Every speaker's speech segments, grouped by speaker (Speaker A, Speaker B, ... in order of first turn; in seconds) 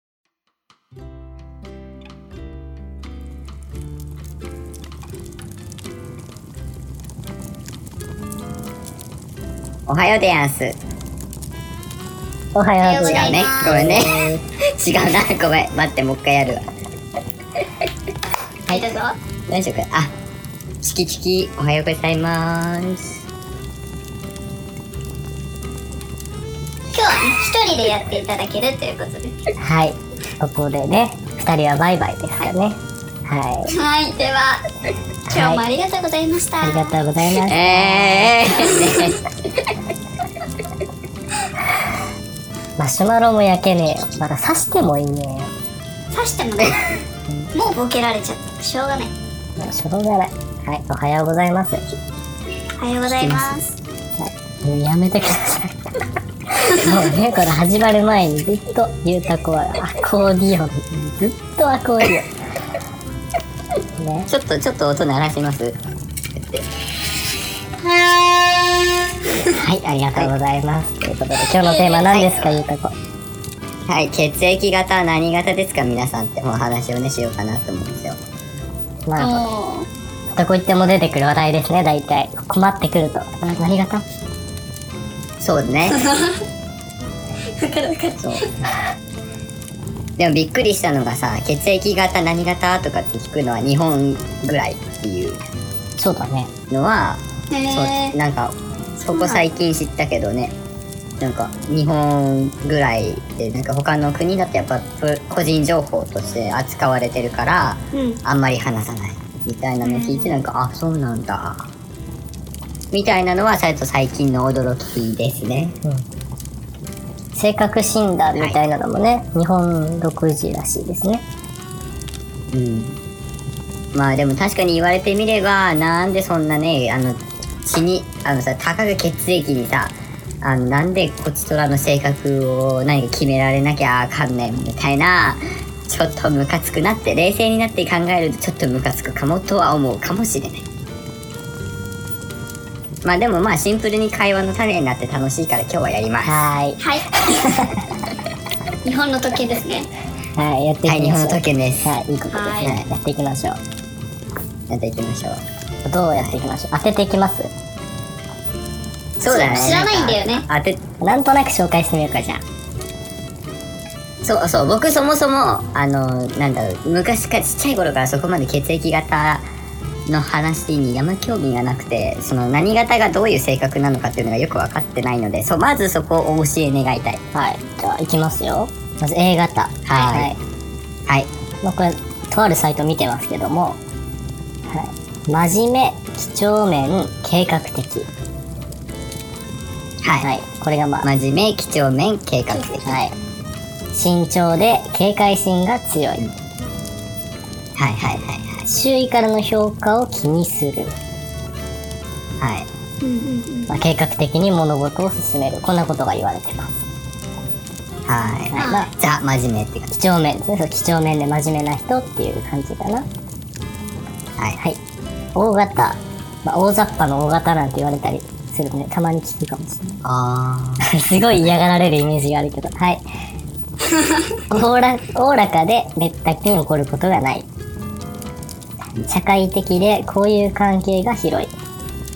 Speaker A: 9.9-10.8, 13.0-16.6, 19.5-20.1, 20.8-23.2, 37.5-39.7, 53.0-53.6, 64.3-65.7, 66.3-66.7, 72.1-72.6, 73.9-78.2, 85.4-86.0, 88.2-88.4, 90.2-95.4, 96.7-100.5, 101.2-111.7, 112.9-115.8, 122.5-123.0, 123.9-140.6, 143.0-146.4, 150.8-151.9, 154.7-155.4, 159.2-160.8, 164.2-169.4, 170.1-177.2, 179.8-180.3, 190.0-190.3, 191.0-193.0, 197.8-198.6, 202.4-202.7, 208.1-209.9, 220.0-220.9
Speaker B: 12.5-14.4, 29.6-33.7, 35.3-35.6, 36.6-38.3, 42.8-45.5, 49.6-51.8, 54.2-62.3, 64.0-64.3, 69.5-72.9, 79.1-79.5, 80.3-84.0, 96.0-96.5, 117.3-121.2, 146.2-147.8, 150.3-153.6, 155.8-157.5, 159.5-159.8, 161.0-162.4, 177.3-180.4, 181.6-183.8, 184.7-188.1, 190.2-191.1, 192.8-193.1, 193.9-196.3, 198.7-200.9, 203.7-206.8, 208.5-208.9, 209.9-213.1, 215.3-220.0, 220.8-223.0, 224.5-227.4, 229.0-231.5
Speaker C: 12.8-14.0, 18.7-19.1, 26.9-29.4, 33.7-34.6, 35.3-37.0, 38.5-39.1, 46.1-46.9, 47.5-49.1, 52.8-53.7, 56.7-57.0, 71.6-72.1, 79.2-79.9, 85.9-86.4, 87.6-88.5, 97.5-98.2, 99.1-99.4, 107.9-108.2, 109.8-110.3, 146.8-147.5, 148.8-149.9, 152.3-152.7, 159.3-160.4, 179.9-180.2, 203.0-203.8, 208.6-208.9